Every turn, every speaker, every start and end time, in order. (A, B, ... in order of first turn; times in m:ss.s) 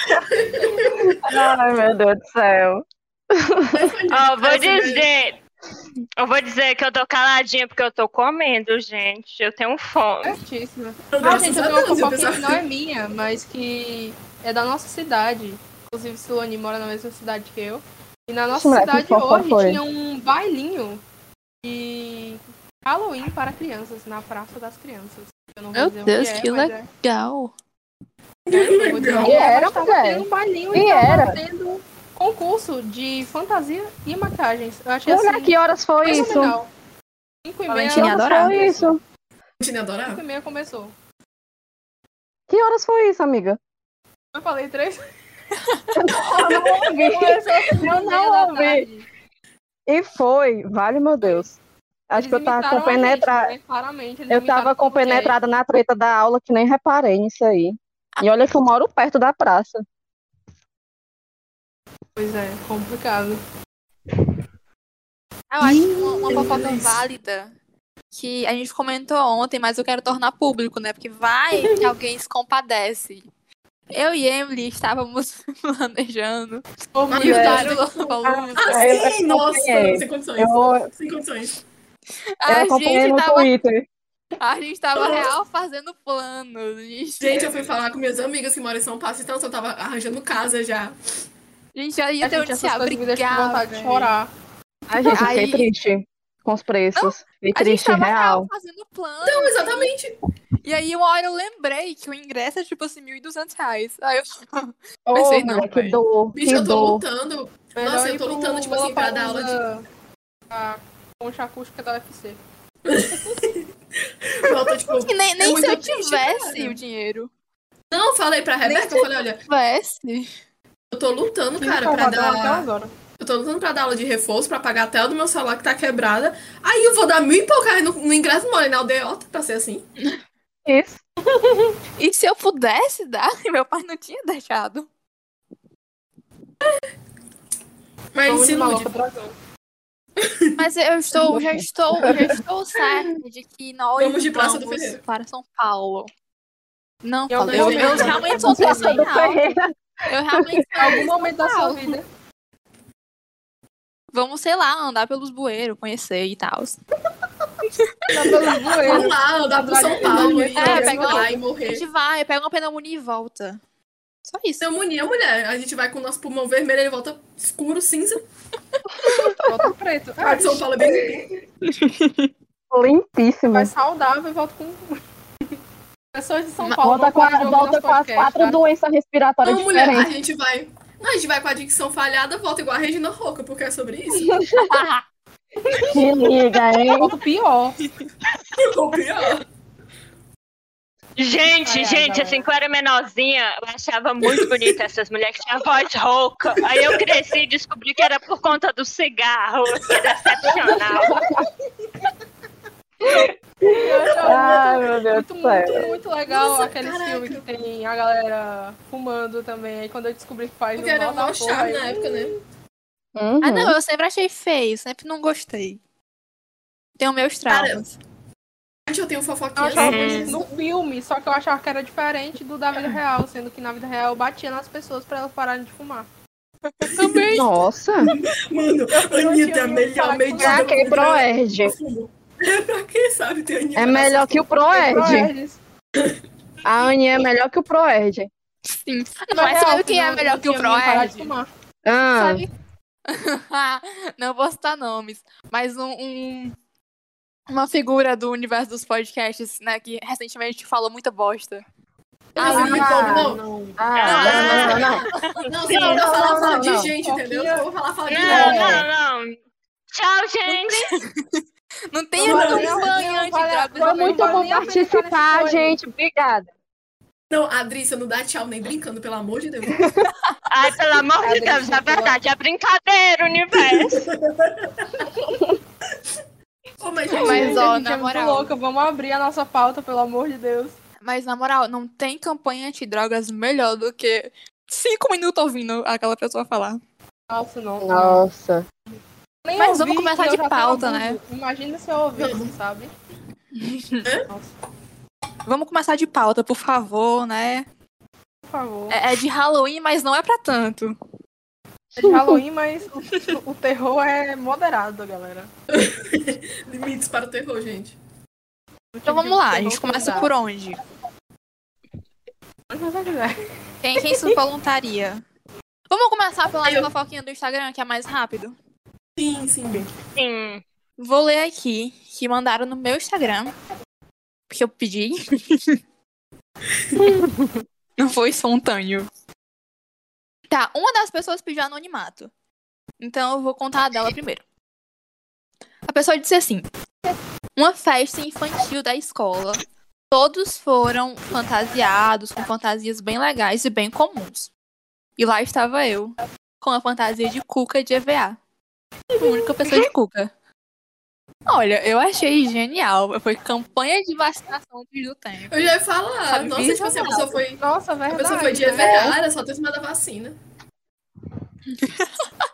0:00.1-0:01.2 A
0:00.5-0:00.8 B
0:00.8-0:03.9 C
0:03.7-0:05.1 A
0:04.1-0:05.4 D
0:06.2-0:10.4 D
0:10.2-0:21.0 B
0:11.1-0:12.6 A
0:18.5-0:19.8 C
0:21.6-0:26.9 B
0:25.7-0:27.5 E
0:28.4-0:29.4 A
0:28.5-0:36.7 B
0:29.2-0:31.4 C
0:35.1-0:36.6 C
0:37.4-0:38.8 B
0:37.7-0:38.7 E
0:37.9-0:39.0 C
0:39.6-0:40.2 A
0:40.0-0:40.9 B
0:42.5-0:43.6 C
0:44.3-0:45.0 B
0:45.9-0:48.8 C
0:46.1-0:46.7 A
0:46.9-0:49.0 B
0:49.9-0:51.6 C
0:52.1-0:53.5 C
0:52.1-0:55.4 B
0:54.3-0:59.8 C
1:02.2-1:03.4 B
1:05.5-1:07.5 E
1:05.8-1:07.0 A
1:08.1-1:13.2 E
1:13.9-1:16.6 E
1:16.9-1:17.8 B
1:17.1-1:21.6 A
1:17.2-1:19.0 E
1:18.2-1:20.9 C
1:22.4-1:23.5 E
1:22.5-1:23.9 C
1:24.4-1:27.4 E
1:25.0-1:25.3 A
1:27.2-1:31.0 A
1:31.7-1:34.1 E
1:32.2-1:34.3 B
1:34.9-1:38.5 C
1:35.1-1:35.7 E
1:36.9-1:39.9 E
1:39.2-1:40.2 A
1:40.6-1:46.0 E
1:45.1-1:47.0 C
1:46.3-1:49.6 A
1:47.8-1:49.8 B
1:50.5-1:52.4 B
1:52.8-1:53.6 A
1:53.1-1:53.4 B
1:54.2-1:56.8 A
1:54.7-1:57.3 E
1:57.9-1:59.4 A
1:58.6-2:00.3 E
2:00.9-2:02.7 A
2:01.6-2:02.9 B
2:03.2-2:09.8 A
2:10.6-2:11.0 C
2:11.2-2:11.7 B
2:12.0-2:14.9 E
2:18.1-2:18.9 A
2:18.3-2:19.3 B
2:20.2-2:20.5 A
2:20.6-2:26.1 E
2:21.3-2:22.2 C
2:24.0-2:25.0 A
2:27.0-2:29.4 E
2:27.3-2:29.0 B
2:27.5-2:28.3 A
2:28.4-2:29.7 C
2:30.1-2:32.0 E
2:30.3-2:30.6 C
2:30.8-2:32.1 B
2:34.1-2:36.8 E
2:38.1-2:41.4 B
2:38.7-2:41.8 A
2:40.5-2:43.6 E
2:44.2-2:44.6 E
2:44.6-2:48.2 A
2:49.0-2:49.3 E
2:49.3-2:51.0 B
2:50.2-2:51.4 A
2:51.6-2:52.3 E
2:52.7-2:53.7 C
2:53.5-2:55.0 B
2:56.1-2:58.6 B
2:56.8-3:00.1 C
2:59.4-3:04.4 A
3:04.2-3:04.8 C
3:05.7-3:06.0 B
3:05.9-3:07.1 C
3:06.9-3:07.8 B
3:08.5-3:09.4 A
3:11.2-3:21.2 D
3:11.6-3:12.4 B
3:16.6-3:17.0 A
3:19.9-3:20.8 A
3:21.0-3:21.4 C
3:23.0-3:25.8 C
3:23.7-3:32.4 B
3:25.7-3:27.4 A
3:30.8-3:32.3 A
3:33.2-3:33.7 C
3:33.4-3:35.8 E
3:37.0-3:38.0 E
3:37.5-3:37.8 A
3:38.9-3:40.5 A
3:39.6-3:46.1 B
3:39.9-3:40.2 D
3:46.7-3:47.5 E
3:47.3-3:48.1 C
3:48.0-3:54.6 A
3:48.9-3:51.0 B
3:50.4-3:51.7 C
3:53.8-3:55.3 C
3:54.7-3:55.6 B
3:56.6-3:58.3 C
3:58.7-4:01.3 E
3:59.3-4:01.5 B
4:01.8-4:02.4 C
4:02.2-4:02.5 E
4:03.1-4:06.6 E
4:07.5-4:11.6 E
4:12.4-4:13.4 A
4:12.4-4:13.8 B
4:12.4-4:15.0 C
4:12.4-4:12.8 E
4:13.9-4:16.0 D
4:14.0-4:14.9 E
4:14.2-4:18.9 A
4:14.3-4:14.7 B
4:15.7-4:16.9 C
4:17.0-4:17.6 B
4:18.1-4:19.4 D
4:18.3-4:18.9 C
4:19.9-4:21.0 D
4:20.5-4:24.7 E
4:22.2-4:22.8 A
4:22.2-4:25.8 B
4:23.8-4:26.5 C
4:27.3-4:30.0 A
4:30.5-4:34.1 D
4:31.2-4:32.1 B
4:31.4-4:31.8 C
4:33.6-4:35.0 A
4:36.8-4:37.6 A
4:37.1-4:40.8 B
4:37.1-4:38.5 E
4:41.0-4:46.8 E
4:47.3-4:48.2 B
4:47.8-4:48.6 C
4:49.4-4:52.9 B
4:49.6-4:51.2 E
4:52.2-4:52.5 A
4:53.5-4:54.1 E
4:55.4-4:57.6 E
4:58.5-4:59.0 B
4:58.9-5:01.0 E
5:01.9-5:05.5 B
5:02.0-5:02.4 C
5:05.7-5:08.0 A
5:08.9-5:10.3 B
5:09.0-5:10.8 E
5:12.7-5:13.4 B
5:13.8-5:15.2 E
5:14.0-5:14.4 B
5:15.9-5:18.6 E
5:16.6-5:16.9 A
5:19.2-5:19.9 A
5:20.1-5:20.6 D
5:21.0-5:23.5 E
5:24.5-5:25.8 E
5:27.0-5:27.5 B
5:28.0-5:29.1 E
5:30.5-5:32.3 E
5:33.0-5:34.4 E
5:35.9-5:36.7 E
5:37.6-5:44.5 E
5:45.2-5:48.4 E
5:49.2-5:49.8 B
5:49.2-5:50.3 E
5:51.5-5:55.7 E
5:55.5-6:00.4 A
5:56.3-5:57.2 E
5:57.1-5:59.2 B
6:01.7-6:02.2 E